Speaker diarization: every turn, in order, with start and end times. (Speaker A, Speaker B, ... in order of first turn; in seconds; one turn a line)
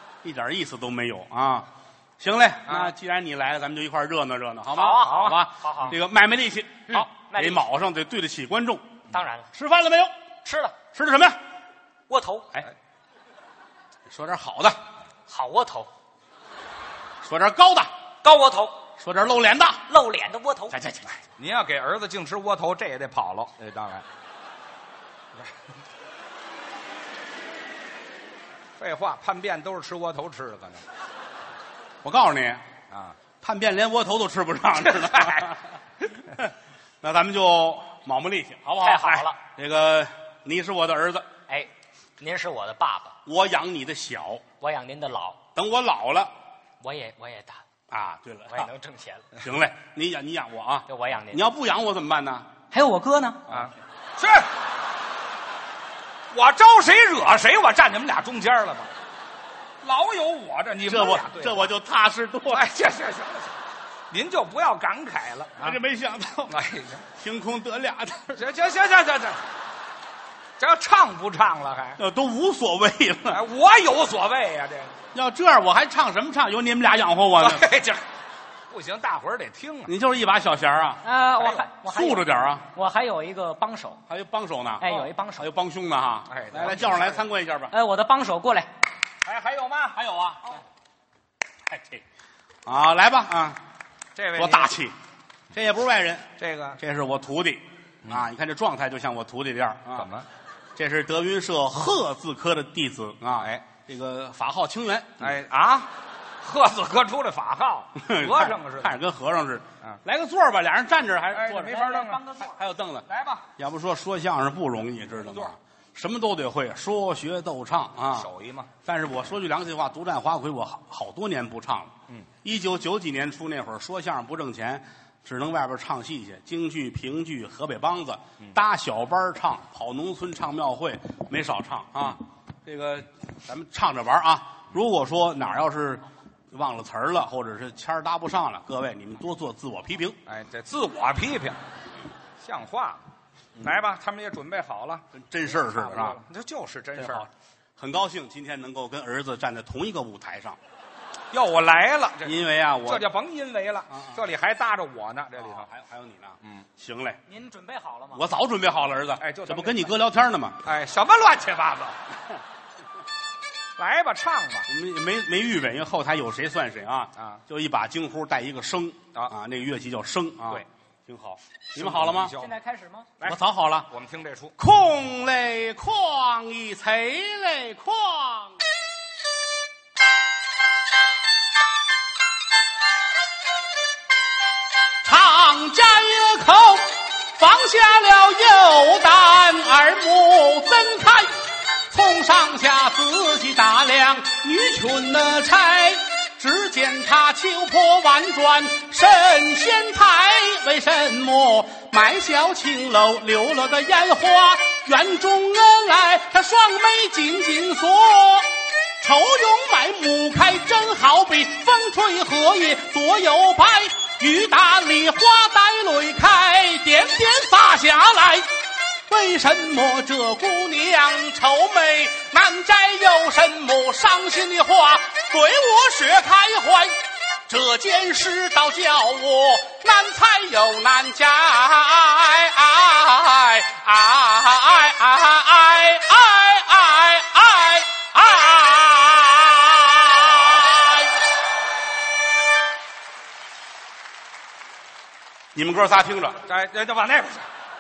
Speaker A: 0.2-8.8
Speaker B: 2.7-2.9
Speaker C: 4.7-6.0
Speaker C: 6.9-7.6
Speaker C: 9.1-9.5
Speaker A: 9.5-10.1
Speaker C: 10.4-10.8
Speaker A: 10.9-11.4
Speaker C: 12.1-12.5
Speaker A: 14.1-14.8
Speaker C: 15.3-15.9
Speaker A: 17.2-17.9
Speaker C: 18.2-18.9
Speaker A: 19.0-19.9
Speaker C: 19.9-21.1
Speaker B: 21.4-24.1
Speaker B: 28.8-30.9
Speaker A: 32.0-32.6
Speaker B: 32.9-33.2
Speaker A: 33.4-35.6
Speaker B: 34.9-35.5
Speaker A: 36.2-41.3
Speaker C: 38.8-39.4
Speaker C: 41.5-43.2
Speaker A: 43.2-44.4
Speaker C: 44.6-45.4
Speaker A: 45.5-46.3
Speaker C: 46.8-47.6
Speaker A: 47.9-48.7
Speaker C: 48.5-49.3
Speaker A: 49.4-52.5
Speaker C: 50.9-51.4
Speaker C: 52.7-53.5
Speaker B: 53.5-54.5
Speaker B: 56.3-58.9
Speaker B: 59.8-61.7
Speaker A: 60.9-62.6
Speaker B: 62.5-63.5
Speaker B: 64.1-65.8
Speaker A: 65.6-66.6
Speaker B: 66.5-67.1
Speaker A: 67.2-68.4
Speaker B: 68.4-69.4
Speaker B: 70.6-72.0
Speaker A: 72.0-73.4
Speaker B: 73.3-75.0
Speaker A: 75.1-77.7
Speaker B: 77.4-78.0
Speaker B: 78.7-79.9
Speaker A: 79.9-81.0
Speaker C: 81.0-84.0
Speaker A: 81.8-82.7
Speaker A: 84.1-87.7
Speaker C: 84.8-85.5
Speaker B: 86.3-87.2
Speaker C: 87.7-88.7
Speaker B: 89.2-90.6
Speaker A: 89.9-90.4
Speaker A: 91.7-92.0
Speaker A: 92.7-93.6
Speaker B: 94.2-94.8
Speaker A: 94.4-94.9
Speaker A: 95.5-100.1
Speaker B: 96.4-96.8
Speaker B: 99.9-100.3
Speaker A: 100.8-105.3
Speaker B: 103.4-103.6
Speaker B: 105.2-109.0
Speaker A: 108.0-118.3
Speaker B: 111.3-112.3
Speaker C: 111.6-112.5
Speaker B: 113.1-113.5
Speaker B: 118.1-118.7
Speaker A: 118.8-140.2
Speaker B: 140.3-141.6
Speaker B: 142.4-143.0
Speaker B: 143.6-147.3
Speaker A: 145.1-146.2
Speaker A: 147.0-150.6
Speaker B: 151.3-155.7
Speaker A: 152.2-153.1
Speaker A: 153.9-154.2
Speaker A: 155.4-157.2
Speaker C: 157.3-158.2
Speaker A: 158.1-160.6
Speaker B: 159.2-159.9
Speaker B: 160.6-162.0
Speaker B: 163.8-164.7
Speaker A: 164.7-172.3
Speaker B: 171.8-172.6
Speaker C: 172.3-173.1
Speaker B: 173.2-174.6
Speaker A: 173.2-173.9
Speaker A: 174.6-178.6
Speaker A: 185.0-191.4
Speaker A: 191.9-218.5
Speaker A: 219.1-241.1
Speaker A: 245.6-246.4
Speaker B: 246.4-247.5